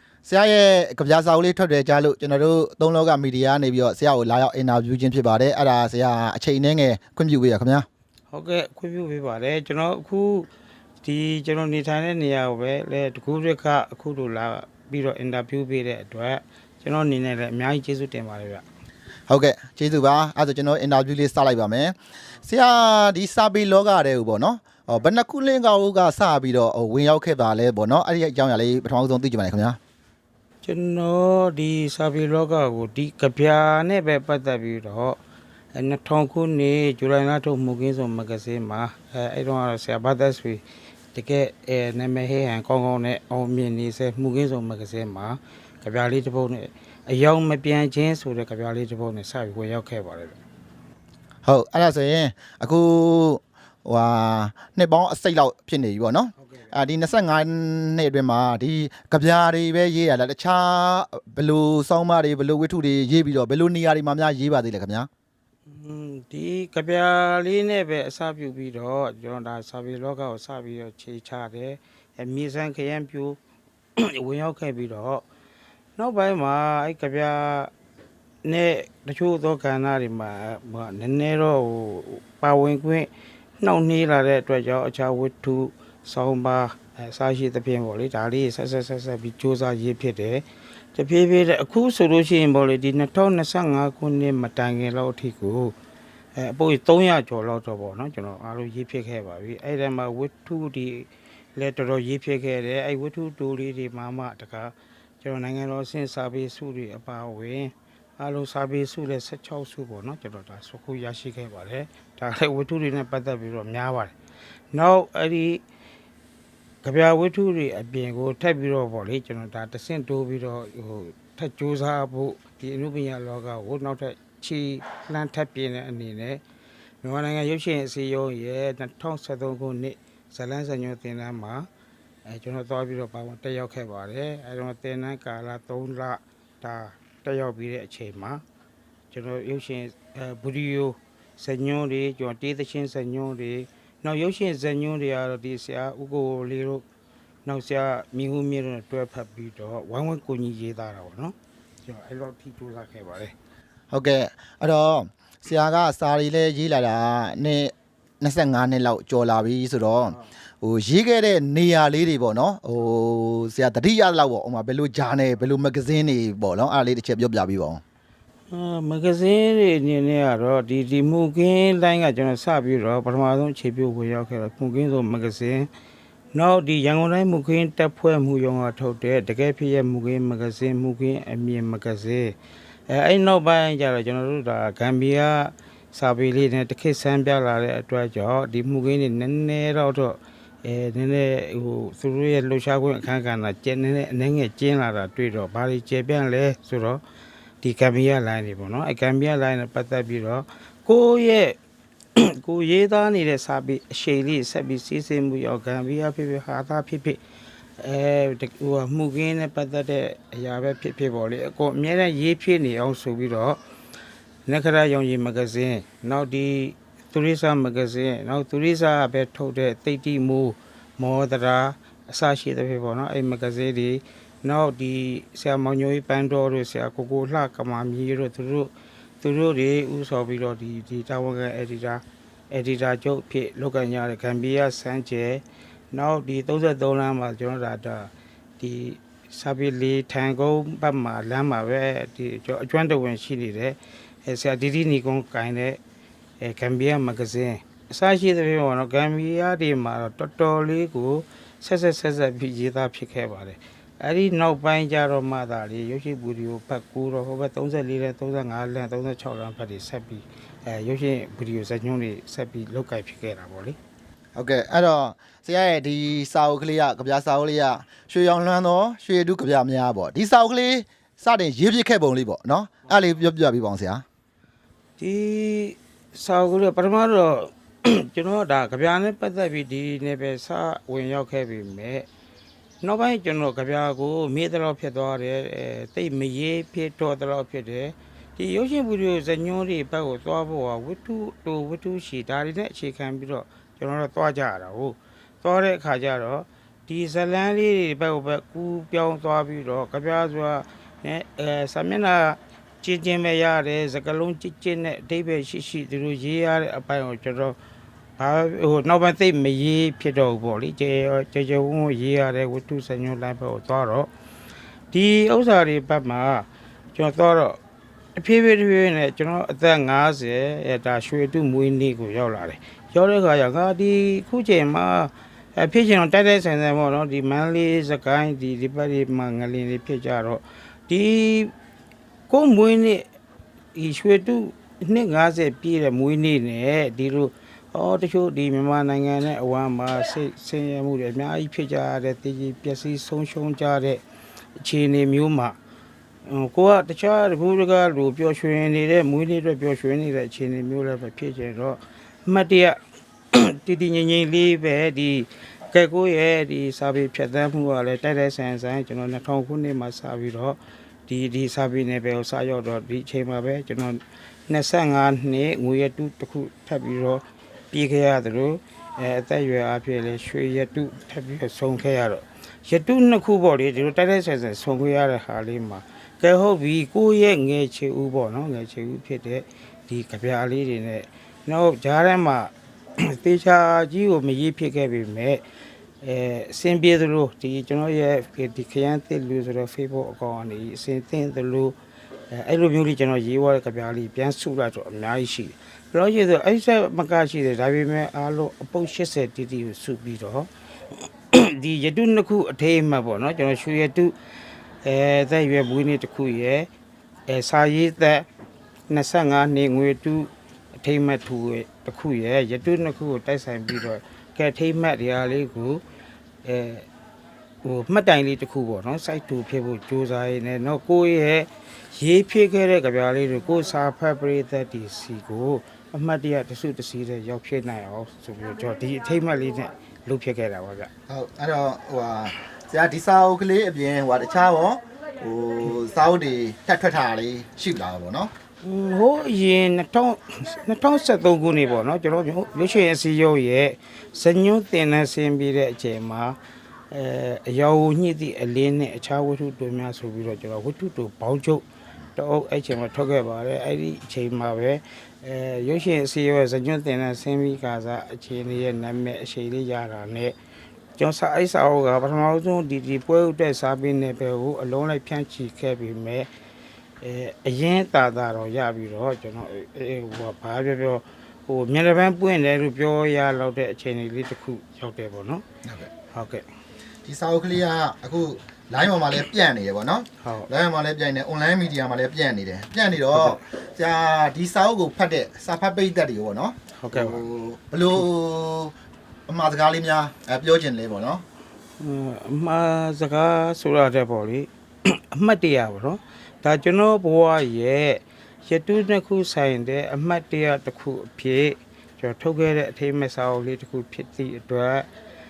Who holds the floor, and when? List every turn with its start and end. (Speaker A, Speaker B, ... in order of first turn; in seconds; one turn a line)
Speaker A: 0.2-7.9
Speaker B: 8.3-10.5
Speaker B: 11.0-18.6
Speaker A: 19.3-29.8
Speaker B: 30.6-35.2
Speaker B: 35.7-40.6
Speaker B: 41.1-50.4
Speaker A: 51.5-65.1
Speaker B: 56.4-56.7
Speaker B: 65.7-73.4
Speaker B: 74.0-75.2
Speaker B: 76.0-77.7
Speaker B: 78.4-95.8
Speaker B: 96.3-114.1
Speaker B: 114.7-115.6
Speaker B: 116.8-126.4
Speaker B: 127.0-131.7
Speaker B: 132.3-138.4
Speaker B: 139.1-146.8
Speaker B: 147.5-153.3
Speaker A: 153.9-167.8
Speaker B: 168.5-175.7
Speaker B: 176.3-182.4
Speaker B: 182.9-197.0
Speaker B: 197.6-201.6
Speaker B: 202.2-207.2
Speaker B: 207.8-213.6
Speaker B: 214.5-245.8
Speaker B: 246.4-263.8
Speaker A: 264.4-274.0
Speaker B: 275.0-282.1
Speaker B: 282.8-307.6
Speaker B: 308.2-314.1
Speaker B: 314.9-317.6
Speaker B: 318.2-331.5
Speaker B: 332.3-333.1
Speaker B: 333.8-344.0
Speaker B: 344.6-345.6
Speaker B: 346.2-352.8
Speaker B: 353.3-385.4
Speaker B: 386.0-391.8
Speaker B: 392.3-400.5
Speaker B: 401.3-404.1
Speaker B: 404.8-406.7
Speaker B: 407.3-408.3
Speaker B: 408.9-415.8
Speaker B: 416.4-416.9
Speaker B: 417.6-430.9
Speaker A: 431.1-438.3
Speaker B: 438.6-446.4
Speaker B: 446.9-451.6
Speaker B: 452.2-460.4
Speaker B: 461.0-466.3
Speaker B: 467.0-475.4
Speaker A: 475.6-475.9
Speaker B: 476.1-476.4
Speaker A: 477.1-488.7
Speaker B: 480.2-480.5
Speaker B: 483.1-483.4
Speaker B: 486.8-487.2
Speaker A: 489.3-491.2
Speaker B: 491.8-504.9